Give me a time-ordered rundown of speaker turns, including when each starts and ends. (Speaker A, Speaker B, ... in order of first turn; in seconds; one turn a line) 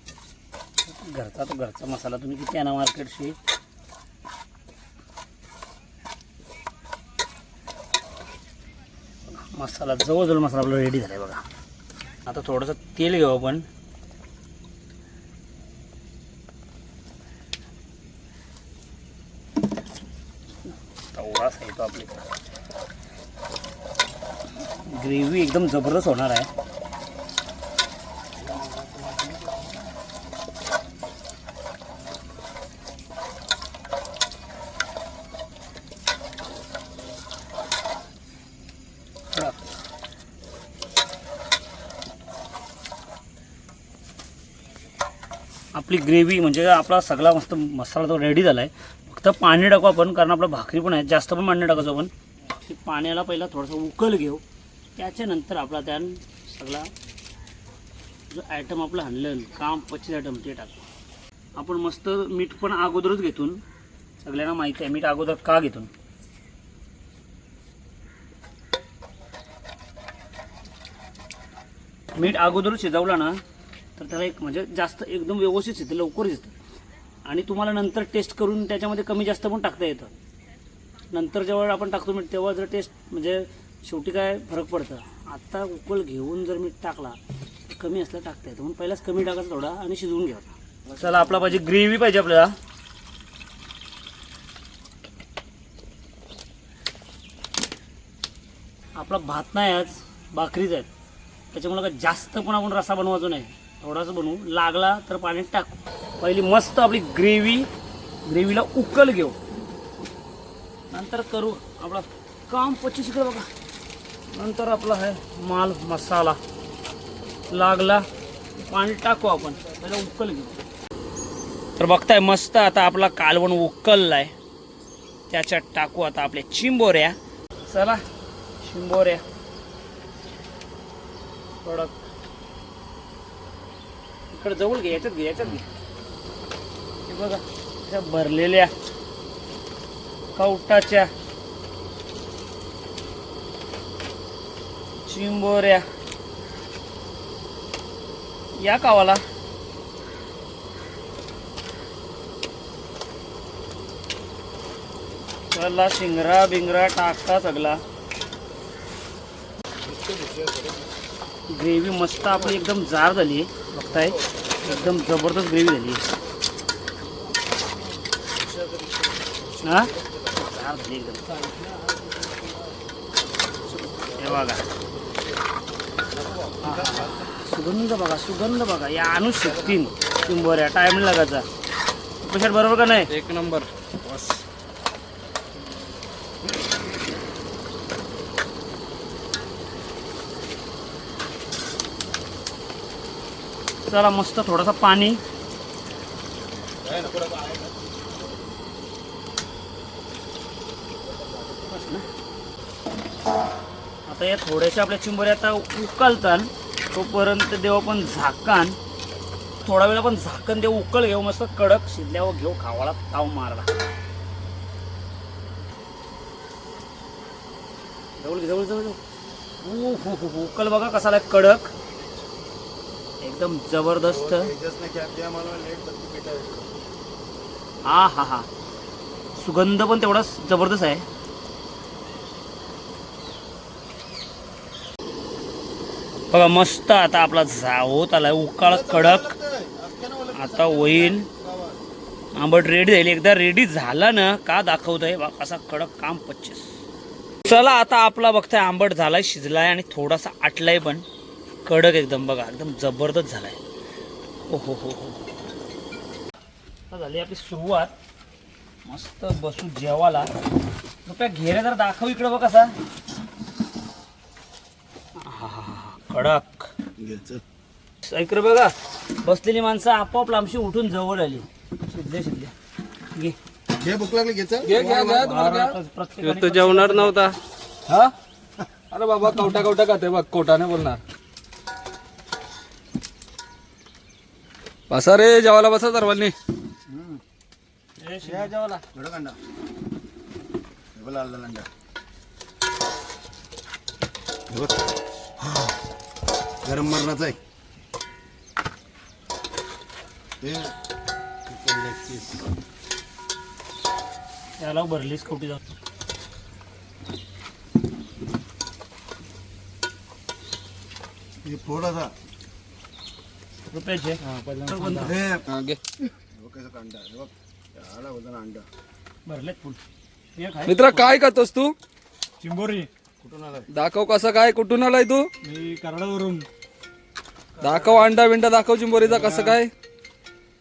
Speaker A: 0.9-3.4
Speaker A: 9.3-11.4
Speaker A: 12.2-13.7
Speaker A: 21.1-22.3
Speaker A: 24.7-26.5
Speaker A: 39.3-39.6
Speaker A: 45.7-54.4
Speaker A: 55.0-56.9
Speaker A: 58.3-60.8
Speaker A: 61.6-63.6
Speaker A: 64.2-65.9
Speaker A: 72.2-73.4
Speaker A: 74.0-76.5
Speaker A: 77.2-80.1
Speaker A: 81.1-92.6
Speaker A: 99.0-100.9
Speaker A: 101.5-107.7
Speaker A: 108.2-109.4
Speaker A: 110.9-113.5
Speaker A: 114.3-116.4
Speaker A: 117.5-118.1
Speaker A: 118.6-120.6
Speaker A: 121.8-124.3
Speaker A: 125.3-128.0
Speaker A: 128.6-129.2
Speaker A: 131.6-132.0
Speaker A: 134.3-135.7
Speaker A: 137.1-138.7
Speaker A: 140.3-141.1
Speaker A: 145.0-145.8
Speaker A: 148.6-149.2
Speaker A: 155.5-157.8
Speaker B: 159.8-160.9
Speaker A: 161.5-166.1
Speaker B: 164.2-164.8
Speaker B: 168.2-170.3
Speaker A: 169.6-171.3
Speaker B: 171.4-172.5
Speaker B: 173.7-174.3
Speaker A: 174.2-174.7
Speaker B: 176.1-177.3
Speaker A: 176.6-181.5
Speaker B: 179.7-180.3
Speaker A: 182.2-183.1
Speaker C: 183.1-183.7
Speaker B: 184.0-184.4
Speaker A: 193.8-195.2
Speaker B: 196.8-197.8
Speaker B: 201.1-201.6
Speaker A: 201.7-202.1
Speaker A: 204.1-208.8
Speaker A: 209.6-213.8
Speaker A: 218.2-219.0
Speaker A: 219.6-221.7
Speaker A: 223.2-224.5
Speaker B: 224.0-226.7
Speaker A: 227.8-228.5
Speaker A: 229.4-231.1
Speaker A: 236.3-239.4
Speaker B: 238.6-241.8
Speaker A: 240.3-241.3
Speaker A: 242.3-246.8
Speaker A: 247.4-251.1
Speaker A: 251.7-253.6
Speaker A: 254.5-255.2
Speaker A: 256.9-257.9
Speaker A: 258.9-260.3
Speaker A: 261.1-262.7
Speaker A: 265.2-266.7
Speaker B: 267.0-267.4
Speaker A: 268.0-272.5
Speaker B: 273.8-275.3
Speaker C: 274.6-278.1
Speaker A: 274.7-277.2
Speaker C: 278.9-281.0
Speaker C: 284.9-286.4
Speaker A: 288.0-288.6
Speaker C: 288.3-288.8
Speaker B: 288.9-289.4
Speaker B: 290.9-291.7
Speaker B: 294.5-294.8
Speaker B: 295.4-295.7
Speaker B: 296.6-297.4
Speaker B: 300.4-300.7
Speaker B: 301.5-302.4
Speaker A: 304.6-305.6
Speaker B: 311.4-312.1
Speaker A: 313.7-315.2
Speaker D: 314.3-314.9
Speaker B: 314.9-315.5
Speaker C: 315.5-315.8
Speaker B: 316.2-318.7
Speaker A: 319.3-319.8
Speaker A: 320.4-321.1
Speaker C: 320.7-321.8
Speaker D: 322.4-322.9
Speaker B: 323.2-323.7
Speaker C: 323.7-325.3
Speaker D: 325.4-326.5
Speaker C: 327.6-329.7
Speaker D: 329.2-329.5